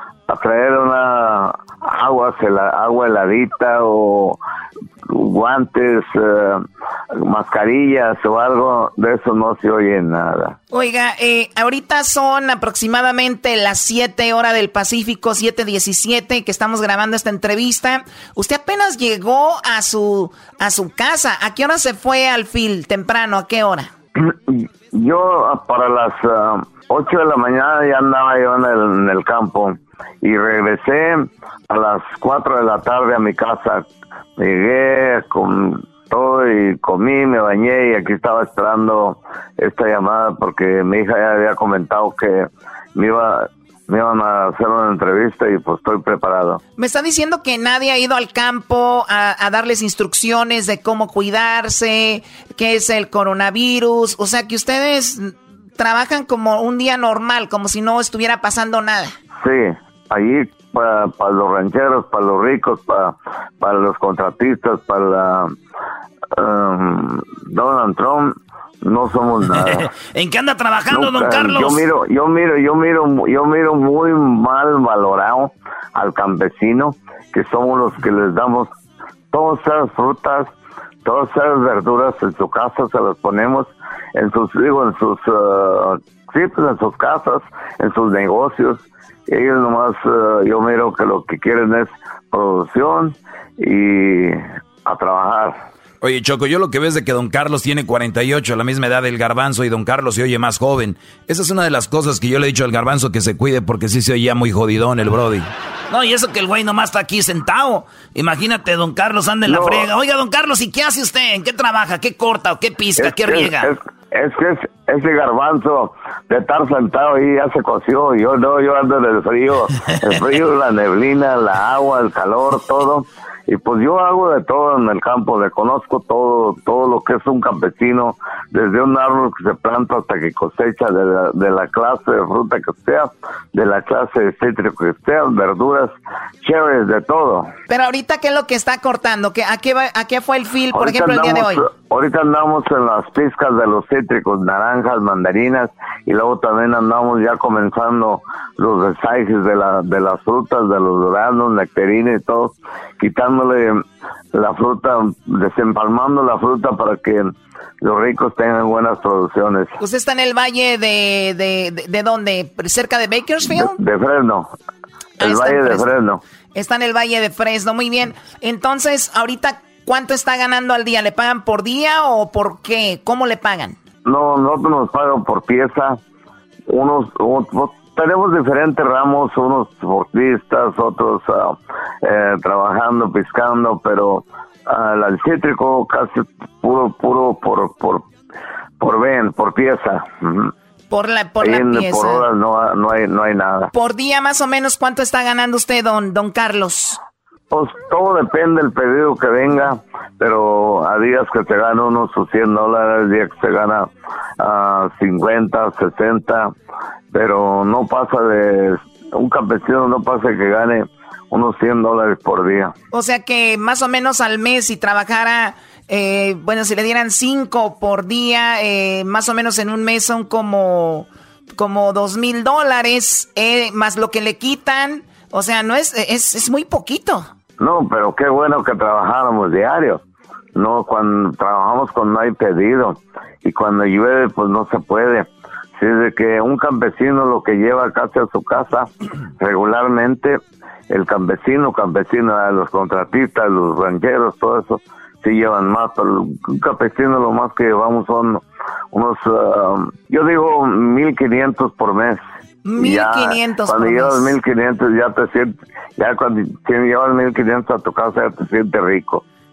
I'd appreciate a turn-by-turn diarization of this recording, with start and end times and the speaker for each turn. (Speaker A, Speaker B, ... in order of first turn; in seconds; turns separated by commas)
Speaker A: 0.3-4.4, Speaker A: 5.1-6.6, Speaker A: 7.2-10.6, Speaker B: 10.7-23.9, Speaker A: 24.2-33.9, Speaker A: 34.4-46.6, Speaker B: 46.8-59.1, Speaker A: 59.4-65.5, Speaker A: 66.4-69.9, Speaker C: 69.5-71.8, Speaker A: 70.9-78.7, Speaker A: 79.3-80.5, Speaker A: 81.0-95.6, Speaker D: 96.0-105.5, Speaker C: 105.9-113.7, Speaker A: 109.5-109.9, Speaker A: 113.0-135.9, Speaker A: 136.4-137.5, Speaker B: 137.7-141.6, Speaker A: 140.7-153.8, Speaker A: 154.3-157.3, Speaker A: 157.8-159.7, Speaker B: 159.8-163.8, Speaker A: 163.5-164.5, Speaker A: 165.2-166.2, Speaker B: 165.2-165.9, Speaker B: 166.6-173.8, Speaker A: 174.1-176.0, Speaker A: 176.7-188.1, Speaker A: 188.8-190.5, Speaker B: 190.9-192.2, Speaker A: 191.4-193.7, Speaker B: 193.7-197.0, Speaker A: 197.5-203.9, Speaker A: 204.4-206.5, Speaker A: 207.1-212.7, Speaker B: 212.9-227.3, Speaker A: 227.6-230.0, Speaker A: 230.6-238.9, Speaker A: 239.4-240.4, Speaker A: 240.9-252.2, Speaker B: 252.7-254.3, Speaker A: 252.8-259.2